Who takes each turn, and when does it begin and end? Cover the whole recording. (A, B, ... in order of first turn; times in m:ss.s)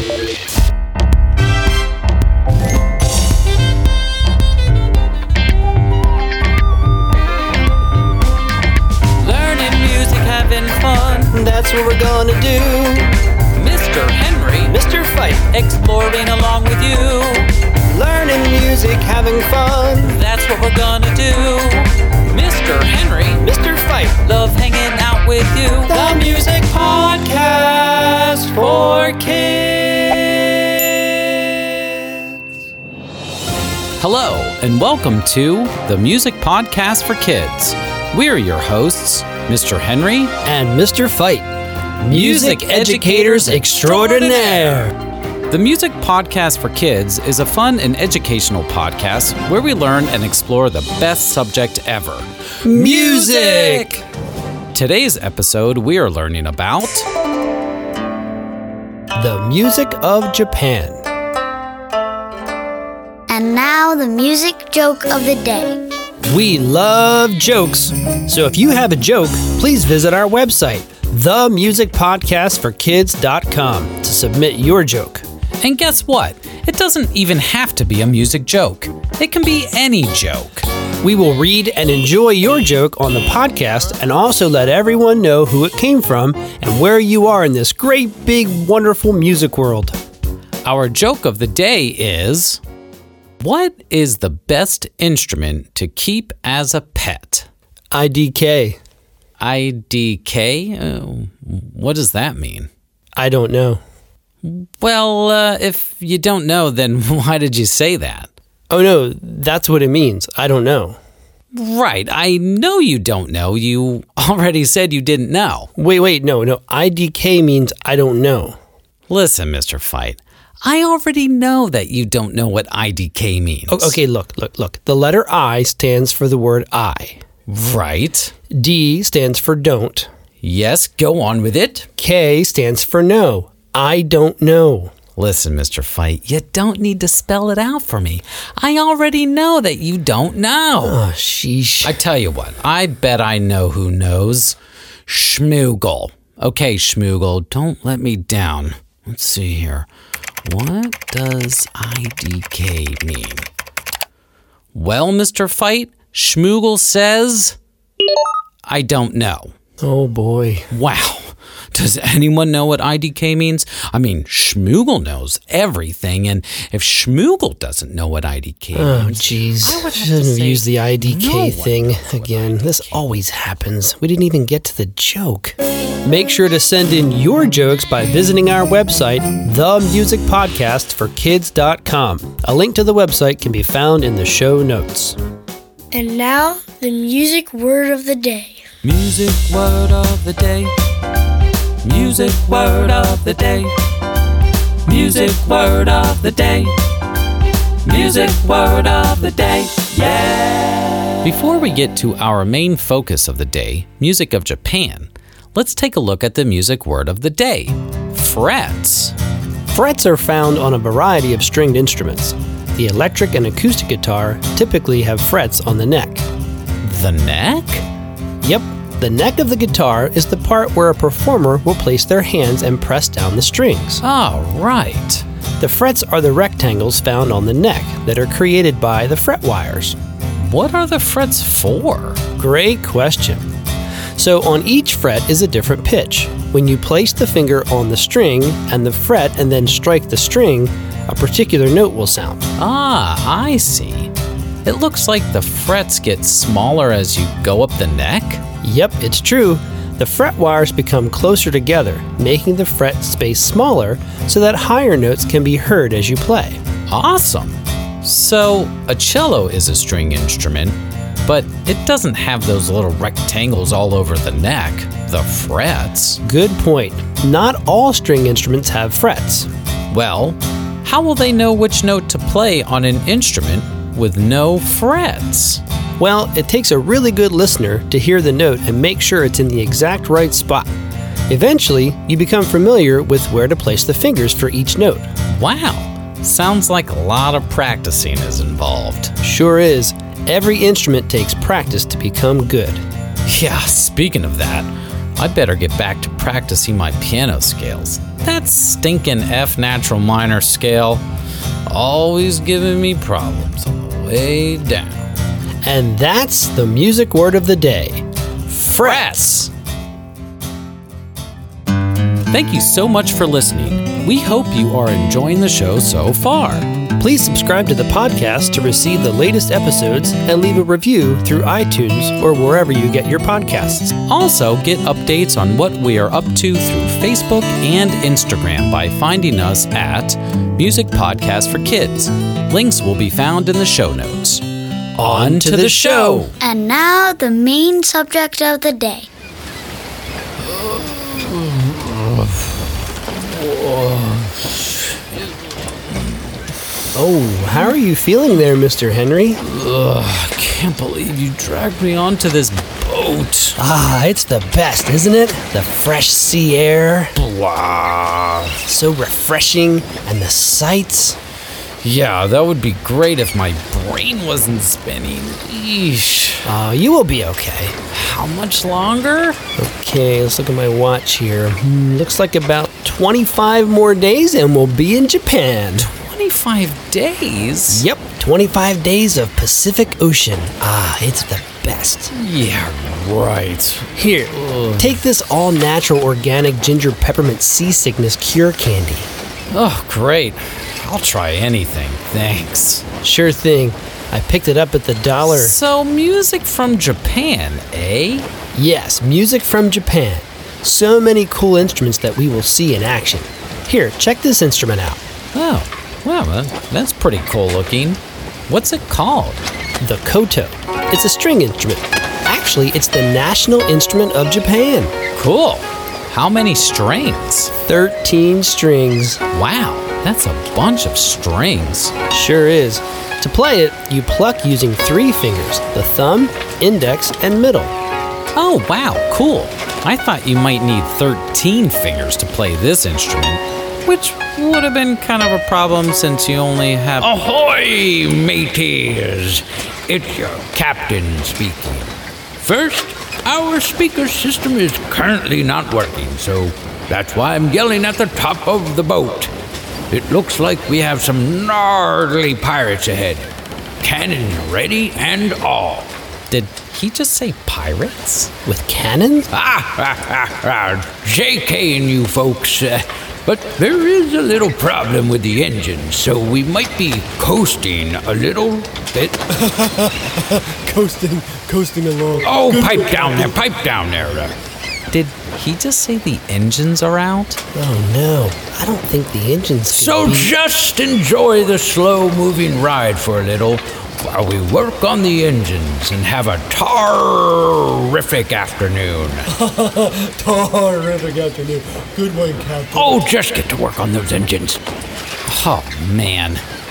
0:09.2-0:11.4 A
0:11.3-0:13.2 B
0:13.5-0:14.8 A
0:14.6-0:15.5 B
0:15.5-0:17.5 A
0:17.9-0:20.2 B
0:20.0-0:23.5 A
0:23.4-0:24.2 B
0:24.2-0:27.3 A
0:25.9-0:28.8 B
0:28.6-0:30.3 A
0:34.0-0:40.4 A
0:40.4-0:41.5 B
0:42.0-0:44.9 B
0:42.1-0:44.9 A
0:45.5-0:54.0 A
0:52.6-0:54.0 B
0:54.7-0:57.1 A
0:59.2-1:01.0 B
1:03.3-1:05.8 C
1:06.2-1:15.2 B
1:15.6-1:20.7 A
1:21.0-1:30.0 B
1:30.6-1:32.6 A
1:33.4-1:37.5 A
1:37.9-1:38.8 B
1:39.4-1:42.7 A
1:43.2-1:43.8 B
1:44.4-1:48.3 A
1:48.7-1:51.0 B
1:51.5-1:55.7 A
1:55.8-1:58.6 B
1:59.1-2:04.0 A
2:03.7-2:07.2 B
2:07.5-2:08.3 A
2:08.5-2:10.1 B
2:10.4-2:11.9 A
2:12.0-2:14.9 B
2:15.2-2:21.0 A
2:20.8-2:22.0 B
2:21.8-2:29.9 A
2:30.4-2:33.5 A
2:34.7-2:37.6 A
2:38.6-2:39.5 A
2:39.8-2:40.7 B
2:40.7-2:53.1 A
2:48.8-3:05.2 B
3:05.9-3:08.6 C
3:08.8-3:10.7 A
3:11.8-3:13.7 A
3:14.9-3:16.7 A
3:17.9-3:29.2 A
3:29.7-3:36.3 B
3:36.8-3:37.9 A
3:38.4-3:44.0 B
3:44.0-3:45.2 A
3:45.6-3:50.0 B
3:50.4-3:52.2 A
3:52.4-3:53.4 B
3:54.2-4:02.5 B
4:02.6-4:04.1 A
4:04.6-4:08.4 A
4:08.6-4:16.6 B
4:16.9-4:26.2 A
4:26.2-4:29.5 B
4:29.9-4:35.6 A
4:36.0-4:40.7 B
4:41.3-4:45.1 B
4:45.3-4:49.2 A
4:49.2-4:52.8 B
4:53.3-5:01.0 A
5:01.7-5:05.2 A
5:05.6-5:09.4 B
5:08.5-5:09.5 A
5:12.3-5:16.7 A
5:17.0-5:23.9 B
5:24.0-5:34.4 A
5:35.0-5:36.3 B
5:35.0-5:36.4 A
5:36.4-5:39.1 C
5:40.4-5:45.2 A
5:46.9-5:49.4 B
5:49.4-5:53.6 A
5:53.6-5:57.1 B
5:57.2-5:58.7 A
5:58.7-6:01.2 B
6:01.8-6:06.5 A
6:06.5-6:07.8 B
6:07.9-6:09.4 A
6:09.6-6:15.9 B
6:15.8-6:17.8 A
6:17.7-6:22.1 B
6:22.1-6:25.1 A
6:24.0-6:29.1 B
6:29.5-6:32.9 A
6:33.0-6:35.6 B
6:35.2-6:38.3 A
6:38.5-6:45.0 B
6:45.3-6:49.4 A
6:49.8-6:54.9 B
6:55.2-6:57.6 A
6:57.7-6:59.2 B
6:59.3-7:02.0 A
7:02.1-7:07.8 B
7:08.4-7:17.1 A
7:17.0-7:29.3 D
7:29.9-7:36.0 D
7:36.3-7:38.3 A
7:38.5-7:39.3 B
7:39.3-7:49.2 D
7:49.7-7:53.4 E
7:50.7-7:51.1 B
7:52.2-7:54.4 D
7:54.9-7:57.4 A
7:57.5-8:00.3 B
7:59.7-8:09.3 D
8:09.6-8:13.0 E
8:12.7-8:14.6 D
8:15.3-8:16.4 A